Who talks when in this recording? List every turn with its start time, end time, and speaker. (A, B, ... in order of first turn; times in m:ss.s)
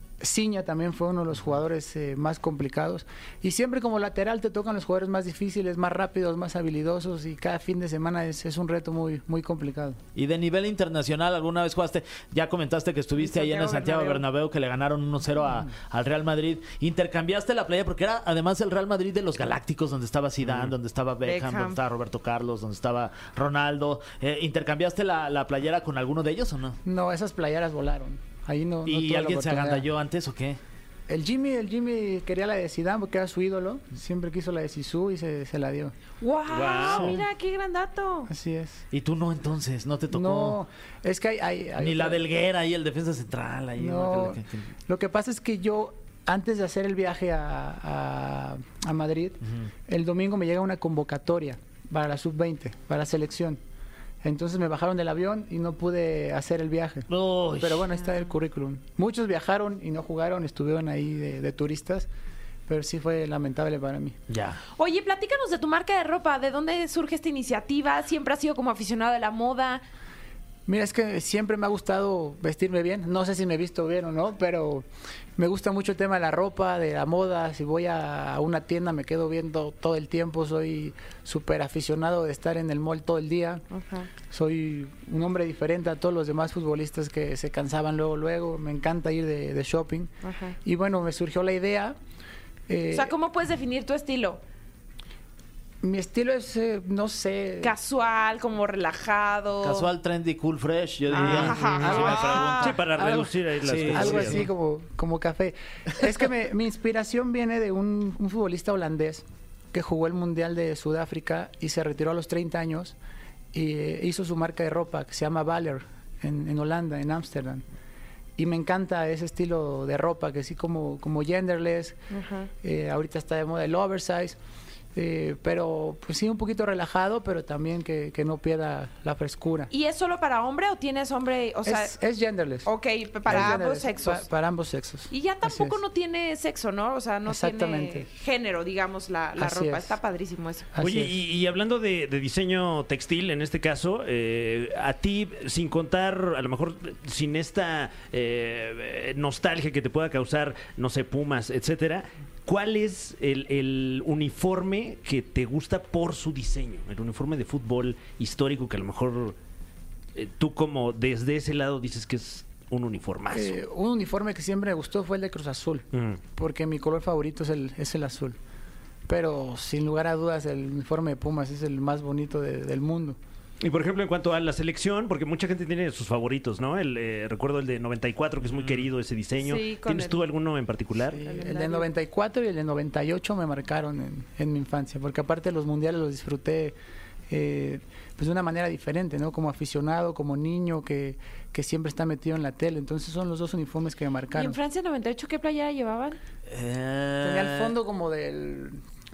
0:00.2-0:10.0 A
0:10.2-0:26.8 B
0:13.2-0:14.2 C
0:20.4-0:20.7 D
0:21.2-0:21.8 C
0:26.8-0:29.8 A
0:28.8-0:30.6 B
0:31.1-0:35.9 A
0:36.2-0:38.3 C
0:36.5-0:37.2 D
0:36.9-0:37.2 B
0:38.3-0:38.8 A
0:38.9-0:40.6 B
0:40.1-0:42.2 A
0:41.8-0:44.7 B
0:43.8-0:53.6 A
0:54.2-1:02.1 A
0:57.1-0:57.9 B
1:02.7-1:04.2 A
1:04.3-1:04.6 B
1:04.8-1:09.8 C
1:10.7-1:14.8 A
1:15.4-1:23.6 A
1:23.7-1:24.1 C
1:24.3-1:30.1 A
1:30.2-1:30.6 C
1:30.6-1:32.0 A
1:32.7-1:33.1 A
1:32.9-1:34.4 C
1:35.8-1:37.7 A
1:37.6-1:39.9 C
1:39.6-1:42.8 B
1:41.1-1:42.7 C
1:41.2-1:53.0 A
1:41.2-1:44.5 D
1:43.6-1:44.5 B
1:53.5-1:57.6 A
1:58.4-2:02.0 A
2:02.1-2:02.5 C
2:02.6-2:04.4 A
2:04.9-2:09.7 A
2:09.7-2:11.9 C
2:11.6-2:12.7 A
2:12.6-2:14.2 C
2:13.2-2:15.8 A
2:15.1-2:20.7 C
2:17.2-2:18.1 A
2:19.4-2:20.0 A
2:20.7-2:21.2 A
2:20.8-2:39.4 D
2:40.1-2:43.6 D
2:43.3-2:48.4 A
2:45.9-2:46.2 D
2:49.1-2:53.2 A
2:53.6-3:01.2 D
2:59.4-3:00.2 C
3:01.1-3:06.8 A
3:01.2-3:01.9 C
3:07.3-3:14.6 A
3:14.3-3:16.2 C
3:16.5-3:17.8 B
3:17.2-3:18.8 A